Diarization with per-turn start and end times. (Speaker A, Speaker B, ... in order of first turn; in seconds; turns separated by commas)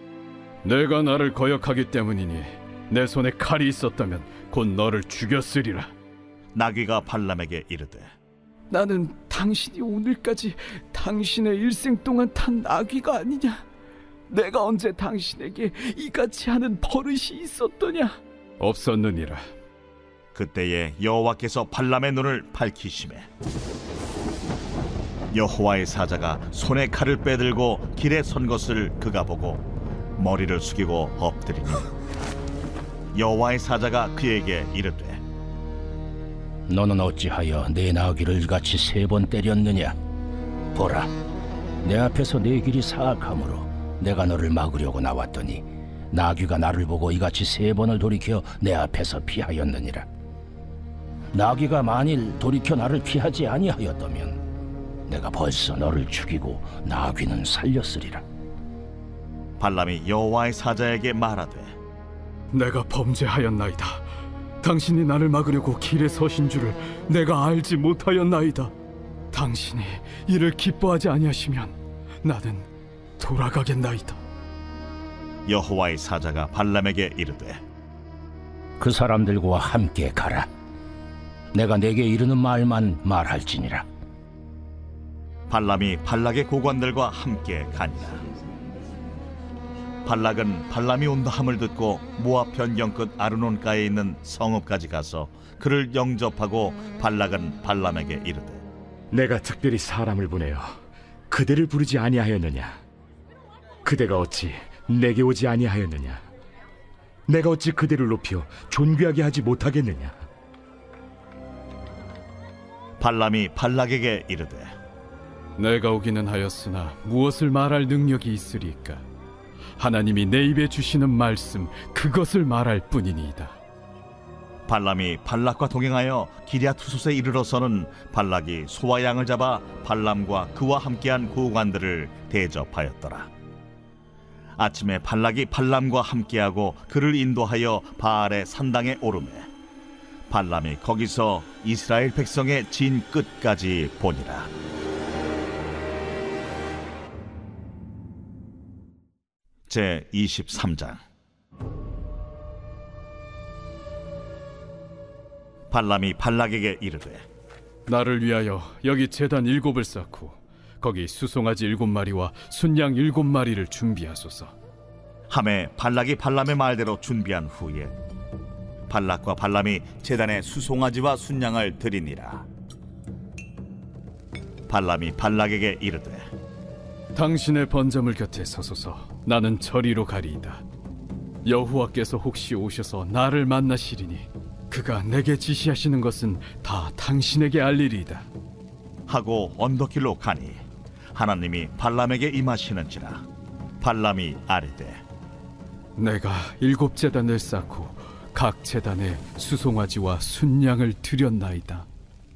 Speaker A: 0.6-5.9, Speaker B: 6.5-8.1, Speaker A: 8.7-13.7, Speaker A: 14.3-19.5, Speaker B: 20.3-23.2, Speaker B: 25.3-29.6, Speaker B: 30.2-31.9, Speaker B: 33.1-35.2, Speaker C: 36.7-40.0, Speaker C: 40.7-41.1, Speaker C: 41.8-50.1, Speaker C: 51.3-54.4, Speaker C: 55.1-58.2, Speaker B: 59.6-61.8, Speaker A: 62.5-64.1, Speaker A: 64.6-68.7, Speaker A: 69.3-72.7, Speaker A: 73.2-74.2, Speaker B: 75.5-77.6, Speaker C: 78.8-80.5, Speaker C: 81.5-83.9, Speaker B: 85.5-88.2, Speaker B: 90.0-98.6, Speaker D: 99.1-100.7, Speaker D: 101.3-102.8, Speaker D: 103.8-106.2, Speaker D: 107.3-110.2, Speaker B: 113.0-114.7, Speaker A: 115.6-119.0, Speaker A: 119.8-123.5, Speaker B: 124.7-133.3, Speaker B: 134.6-139.5, Speaker B: 140.3-144.5, Speaker B: 149.7-151.0, Speaker B: 155.7-157.2, Speaker A: 157.9-164.5, Speaker B: 165.3-167.9, Speaker B: 168.9-172.5, Speaker B: 174.7-176.3, Speaker A: 177.1-180.6, Speaker A: 181.4-188.3, Speaker B: 189.1-190.6, Speaker B: 191.1-193.2, Speaker B: 193.8-195.0, Speaker A: 196.0-201.9